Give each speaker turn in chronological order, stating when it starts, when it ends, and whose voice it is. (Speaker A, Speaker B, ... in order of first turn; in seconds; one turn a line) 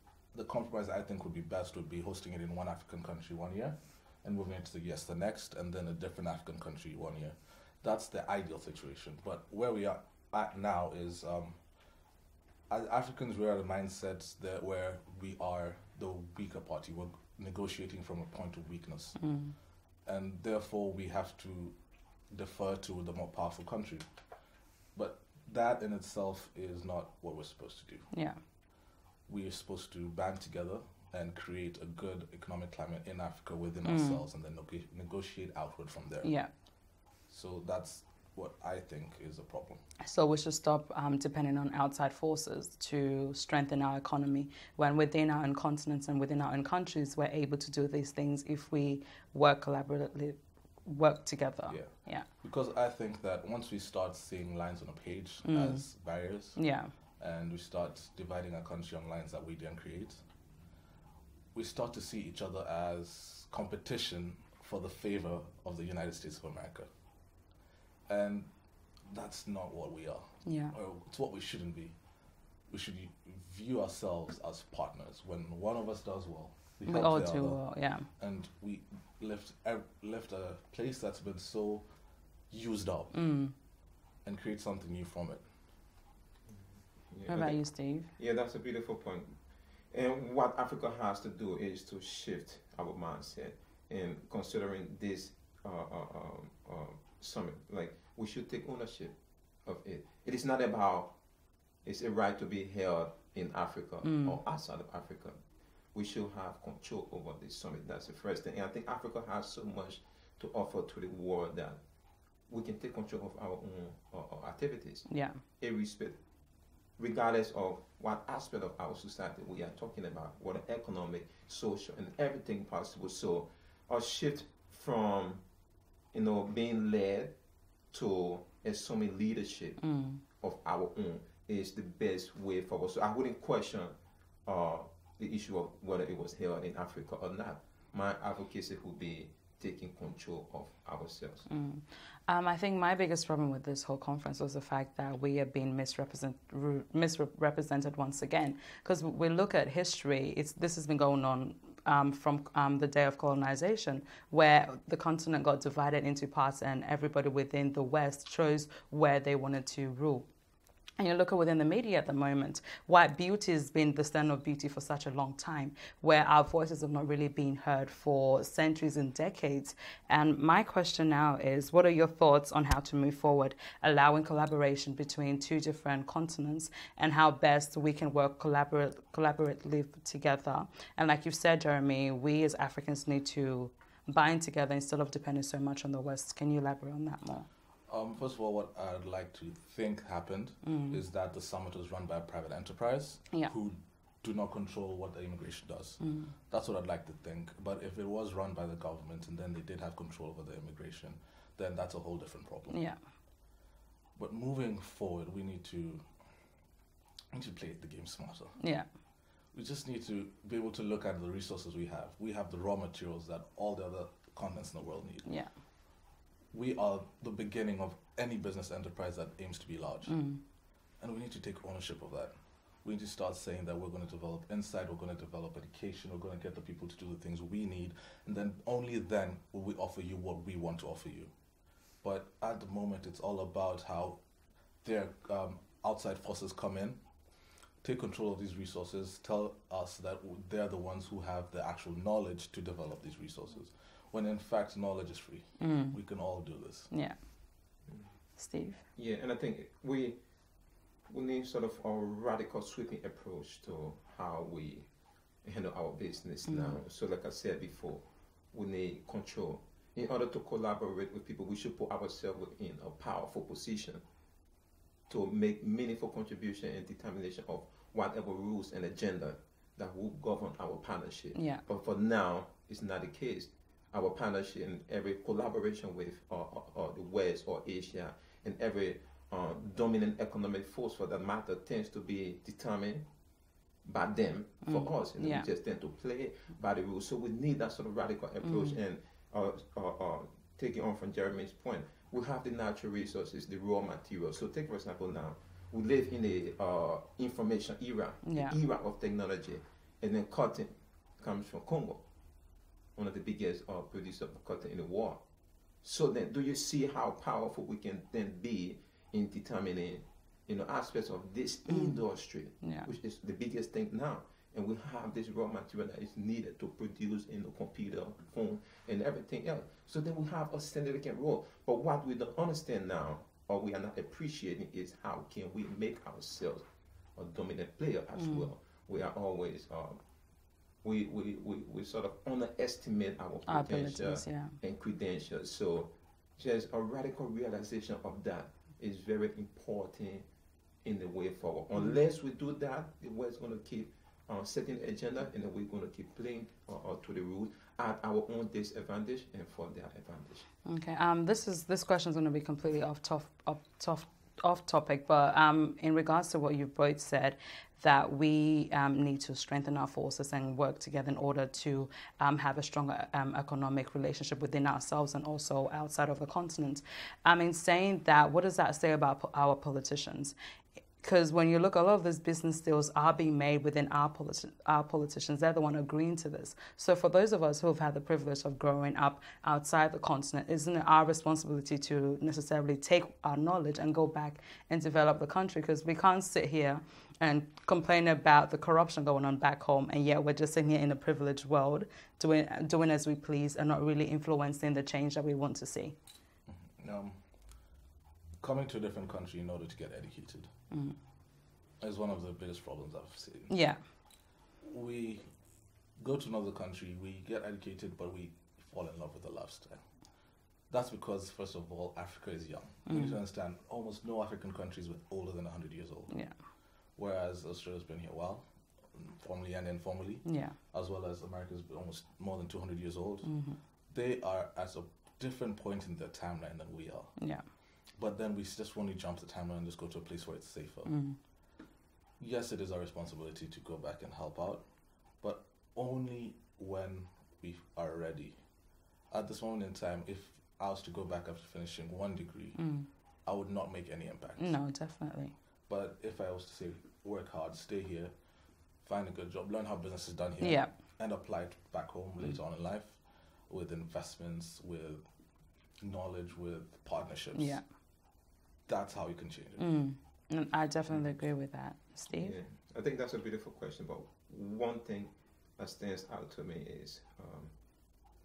Speaker A: 0.3-11.6
Speaker A: 12.7-19.2
Speaker B: 19.2-19.6
Speaker A: 20.1-21.8
Speaker A: 22.3-24.1
Speaker A: 24.9-28.1
Speaker B: 28.1-28.4
Speaker A: 29.3-36.3
Speaker B: 33.9-34.2
Speaker B: 36.2-36.5
Speaker A: 37.3-39.8
Speaker B: 40.0-52.3
Speaker A: 51.7-56.6
Speaker B: 55.4-56.9
Speaker A: 57.2-60.2
Speaker A: 61.5-66.9
Speaker A: 68.1-68.5
Speaker A: 69.1-72.0
Speaker B: 70.5-70.8
Speaker A: 72.7-81.9
Speaker B: 76.9-78.1
Speaker A: 82.5-83.2
Speaker B: 83.1-83.5
Speaker A: 84.2-85.4
Speaker C: 87.1-89.4
Speaker B: 87.3-88.1
Speaker C: 89.9-101.2
Speaker C: 101.8-105.4
Speaker B: 104.0-104.4
Speaker C: 105.9-111.8
Speaker C: 112.5-115.1
Speaker B: 115.1-115.4
Speaker C: 115.6-116.2
Speaker C: 117.0-125.4
Speaker C: 126.1-127.3
Speaker C: 127.9-129.8
Speaker B: 129.8-130.2
Speaker C: 130.4-133.9
Speaker C: 134.5-141.5
Speaker B: 141.5-160.3
Speaker B: 161.0-187.5
Speaker A: 187.9-202.8
Speaker B: 190.6-191.0
Speaker B: 196.0-196.3
Speaker B: 202.7-203.0
Speaker A: 204.2-206.0
Speaker A: 207.3-208.6
Speaker B: 208.6-208.9
Speaker A: 209.5-215.3
Speaker B: 215.2-215.5
Speaker A: 216.5-220.2
Speaker B: 220.1-220.4
Speaker A: 221.0-231.3
Speaker A: 232.0-234.2
Speaker A: 234.8-237.0
Speaker A: 237.8-246.9
Speaker B: 245.6-246.0
Speaker B: 246.9-247.2
Speaker B: 248.4-248.8
Speaker C: 248.9-250.2
Speaker C: 251.1-254.9
Speaker C: 255.4-264.0
Speaker B: 256.5-256.8
Speaker C: 265.1-283.1
Speaker B: 271.3-271.6
Speaker C: 283.9-302.0
Speaker B: 284.6-285.5
Speaker B: 288.4-288.8
Speaker B: 298.2-298.6
Speaker C: 303.0-305.2
Speaker C: 305.8-330.0
Speaker B: 311.7-312.0
Speaker B: 312.6-312.9
Speaker B: 328.2-328.5
Speaker C: 330.8-340.3
Speaker B: 333.5-334.5
Speaker C: 340.8-350.5
Speaker B: 350.6-370.4
Speaker B: 371.0-396.0
Speaker A: 396.5-397.2
Speaker A: 398.4-400.5
Speaker B: 400.7-401.0
Speaker A: 401.8-403.5
Speaker B: 403.5-403.8
Speaker A: 404.6-405.3
Speaker A: 406.0-409.8
Speaker A: 410.7-416.1
Speaker B: 412.9-413.2
Speaker A: 417.0-423.3
Speaker B: 420.2-420.6
Speaker B: 423.2-423.6
Speaker A: 423.9-427.1
Speaker A: 428.0-430.9
Speaker B: 430.9-431.2
Speaker A: 432.2-434.6
Speaker A: 435.2-438.4
Speaker A: 439.1-442.6
Speaker B: 442.6-442.9
Speaker A: 443.3-444.6
Speaker B: 444.4-445.3
Speaker A: 445.7-448.1
Speaker A: 448.8-455.0
Speaker B: 450.4-450.7
Speaker A: 455.8-457.6
Speaker B: 457.3-457.6
Speaker A: 458.7-459.7
Speaker B: 459.6-462.4
Speaker C: 462.1-467.5